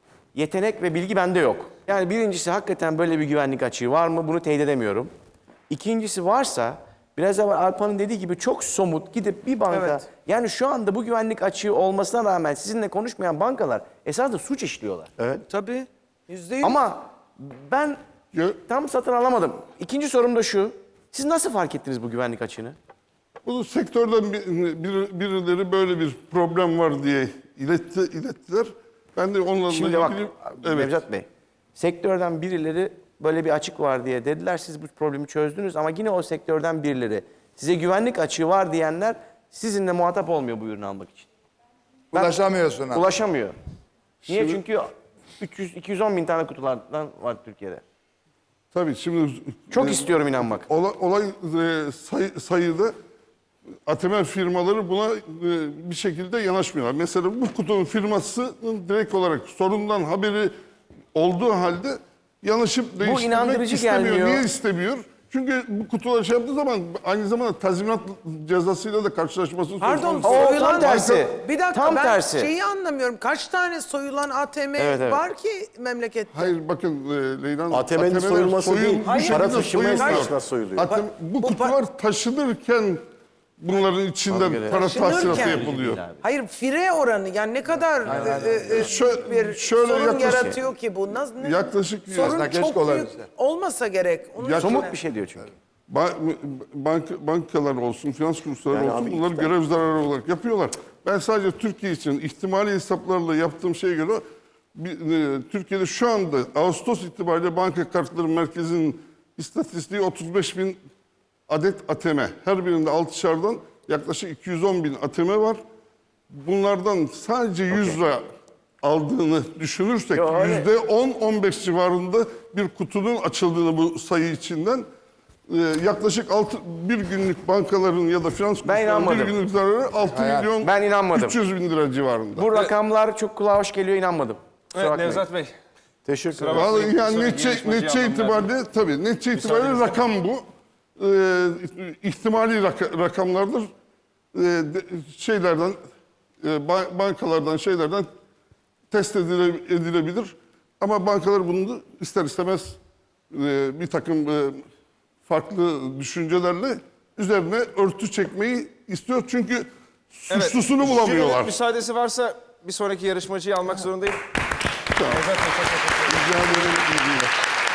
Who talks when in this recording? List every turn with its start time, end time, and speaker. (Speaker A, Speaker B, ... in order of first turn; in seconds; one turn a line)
Speaker A: 0.3-5.1
Speaker A: 5.7-15.1
Speaker B: 9.7-10.0
Speaker B: 15.5-16.8
Speaker A: 16.6-18.0
Speaker C: 18.3-18.6
Speaker A: 18.6-22.8
Speaker C: 23.4-31.0
Speaker A: 29.7-41.3
Speaker D: 42.1-43.1
Speaker A: 42.9-43.5
Speaker C: 44.2-44.6
Speaker A: 44.3-47.8
Speaker C: 48.7-50.1
Speaker A: 49.7-50.7
Speaker C: 50.7-52.9
Speaker C: 53.9-60.5
Speaker C: 61.1-71.2
Speaker A: 63.0-64.5
Speaker B: 69.8-76.6
Speaker A: 70.2-72.5
Speaker A: 74.8-75.2
Speaker C: 76.3-83.0
Speaker E: 77.7-80.9
Speaker B: 79.1-80.3
Speaker B: 80.9-81.8
Speaker C: 83.6-86.1
Speaker A: 84.3-86.2
Speaker B: 84.6-95.0
Speaker D: 88.0-88.9
Speaker C: 88.8-90.5
Speaker A: 90.2-90.6
Speaker C: 91.4-92.5
Speaker D: 92.2-93.3
Speaker C: 94.4-94.9
Speaker A: 94.6-95.5
Speaker C: 95.9-104.2
Speaker E: 98.7-99.5
Speaker C: 104.8-110.8
Speaker C: 111.5-115.6
Speaker C: 116.3-118.2
Speaker C: 118.8-124.9
Speaker A: 120.2-120.7
Speaker C: 125.5-132.5
Speaker A: 128.6-129.4
Speaker D: 130.1-130.5
Speaker A: 130.6-131.4
Speaker A: 132.4-135.2
Speaker F: 134.7-135.5
Speaker E: 136.1-136.7
Speaker F: 136.3-138.5
Speaker C: 136.5-140.4
Speaker F: 139.3-140.0
Speaker C: 141.0-143.7
Speaker C: 144.3-145.8
Speaker C: 146.4-148.1
Speaker C: 148.9-152.8
Speaker C: 153.3-154.6
Speaker C: 155.3-161.6
Speaker F: 160.3-164.2
Speaker C: 164.9-165.2
Speaker F: 165.1-166.7
Speaker C: 166.1-167.3